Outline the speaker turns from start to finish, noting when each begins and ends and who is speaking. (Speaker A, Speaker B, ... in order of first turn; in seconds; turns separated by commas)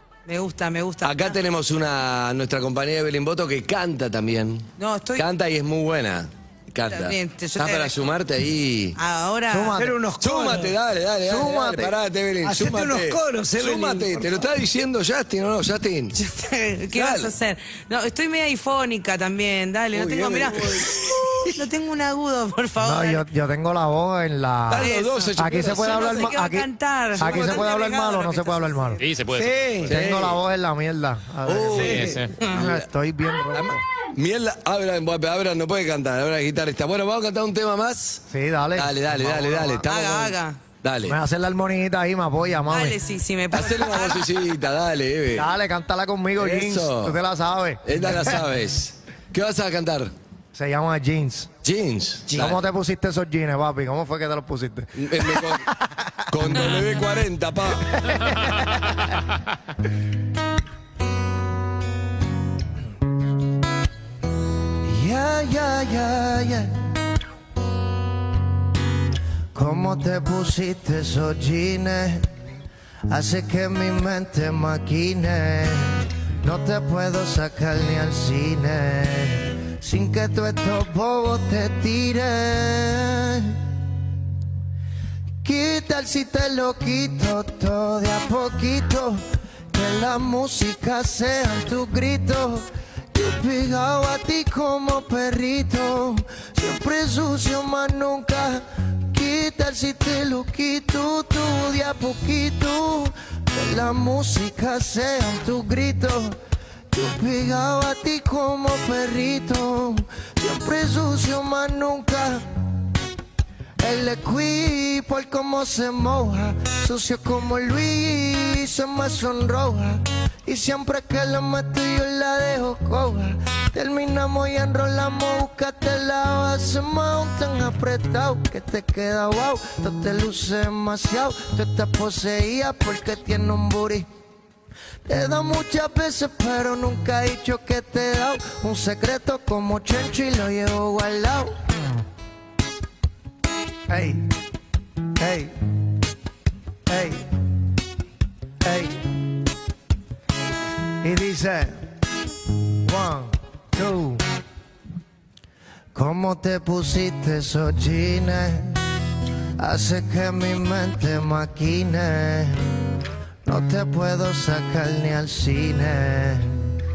Speaker A: 0.3-1.4, Speaker B: 1.0-9.0, Speaker A: 4.8-5.3, Speaker A: 6.9-8.0, Speaker A: 9.0-9.8, Speaker C: 9.5-10.0, Speaker D: 9.8-10.8, Speaker B: 10.2-16.2, Speaker C: 11.2-12.0, Speaker D: 12.4-14.5, Speaker A: 16.1-20.8, Speaker B: 16.9-17.3, Speaker B: 19.9-21.5, Speaker A: 21.6-23.2, Speaker C: 22.8-29.1, Speaker B: 24.7-26.3, Speaker A: 24.8-29.0, Speaker B: 27.2-27.6, Speaker E: 29.0-29.9, Speaker D: 29.3-30.0, Speaker C: 29.9-33.8, Speaker B: 29.9-30.4, Speaker B: 31.5-32.9, Speaker D: 31.7-32.1, Speaker E: 31.8-32.4, Speaker B: 33.5-38.2, Speaker C: 38.3-39.9, Speaker B: 38.8-41.2, Speaker A: 39.9-40.6, Speaker C: 41.1-43.0, Speaker A: 42.7-44.3, Speaker B: 43.5-45.5, Speaker C: 45.3-48.4, Speaker B: 46.4-47.2, Speaker B: 47.9-50.1, Speaker C: 50.5-51.5, Speaker B: 51.6-52.6, Speaker C: 52.3-56.1, Speaker B: 55.0-55.6, Speaker B: 56.3-58.0, Speaker C: 57.9-59.0, Speaker E: 58.2-59.1, Speaker C: 64.8-66.8, Speaker C: 69.5-72.3, Speaker C: 73.1-83.6, Speaker C: 85.4-89.2, Speaker C: 89.7-106.4, Speaker C: 106.9-112.4, Speaker C: 113.8-134.1, Speaker C: 135.1-141.5, Speaker C: 143.9-144.3, Speaker C: 145.2-145.6, Speaker C: 146.9-147.3, Speaker C: 148.6-149.1, Speaker C: 151.0-151.8, Speaker C: 152.9-154.2, Speaker C: 155.9-158.8, Speaker C: 159.6-162.7, Speaker C: 163.4-166.7